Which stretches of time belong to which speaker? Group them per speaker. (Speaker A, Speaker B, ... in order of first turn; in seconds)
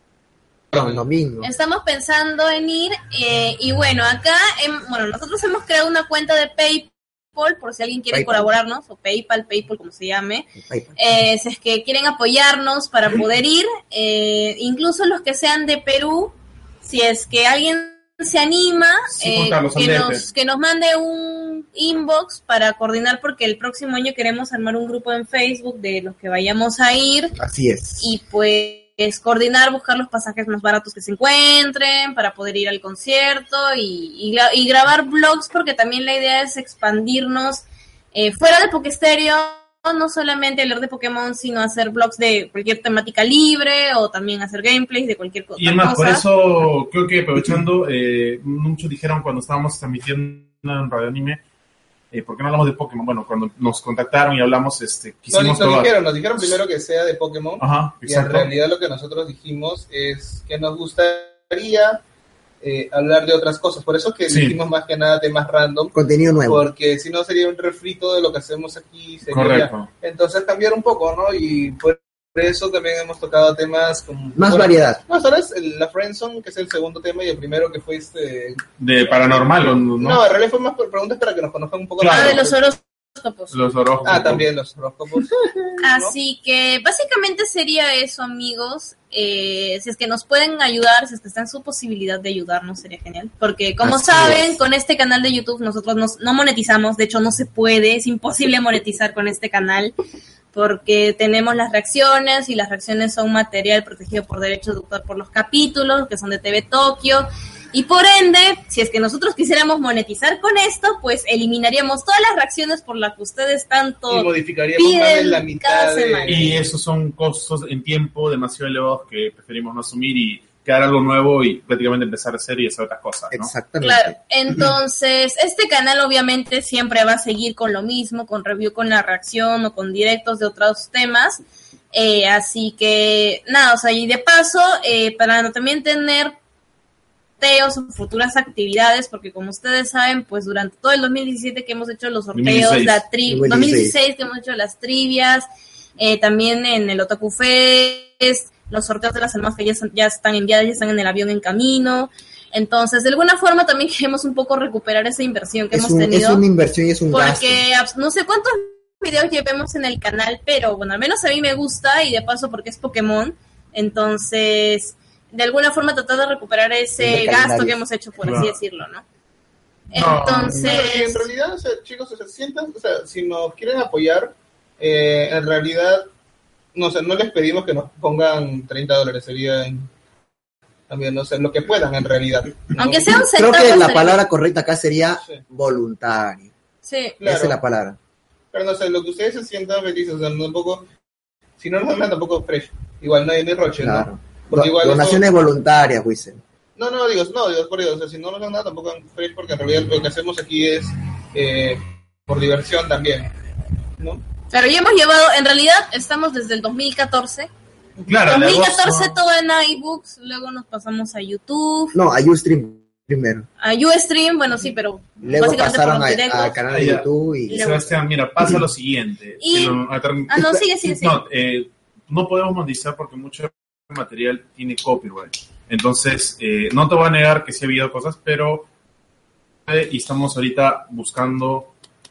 Speaker A: 0.7-1.0, 55.3-62.0, 62.6-65.9, 66.5-78.6, 80.0-82.6, 84.0-86.1, 114.1-116.7, 170.5-176.1, 176.7-179.9, 180.9-183.2, 187.2-187.6, 188.5-190.9, 191.6-195.2, 196.8-203.3
Speaker B: 0.7-1.5, 8.1-8.5, 10.6-11.0, 27.4-28.1, 65.9-66.6, 74.3-75.0, 93.8-94.6, 123.3-124.1, 143.2-143.9, 155.7-157.6, 167.0-167.8, 183.2-186.5, 187.2-188.0, 193.8-196.4, 211.9-213.5, 215.2-217.6
Speaker C: 1.4-27.3, 28.0-46.2, 82.0-83.5, 85.8-99.9, 100.5-116.5, 123.8-136.3, 137.4-145.4, 146.0-156.4, 157.1-169.0, 169.9-171.3, 182.8-184.2, 186.8-187.2, 204.5-207.5, 208.2-211.9, 213.6-216.9, 217.5-218.0, 219.4-221.2
Speaker D: 19.1-20.2, 45.6-51.4, 52.1-56.4, 57.6-58.5, 64.3-64.6, 69.3-69.9, 78.8-80.2, 82.0-82.4, 83.5-84.5, 116.2-123.5, 142.3-143.0, 168.2-168.5, 169.9-170.9, 208.1-209.2, 216.7-228.7, 229.7-231.7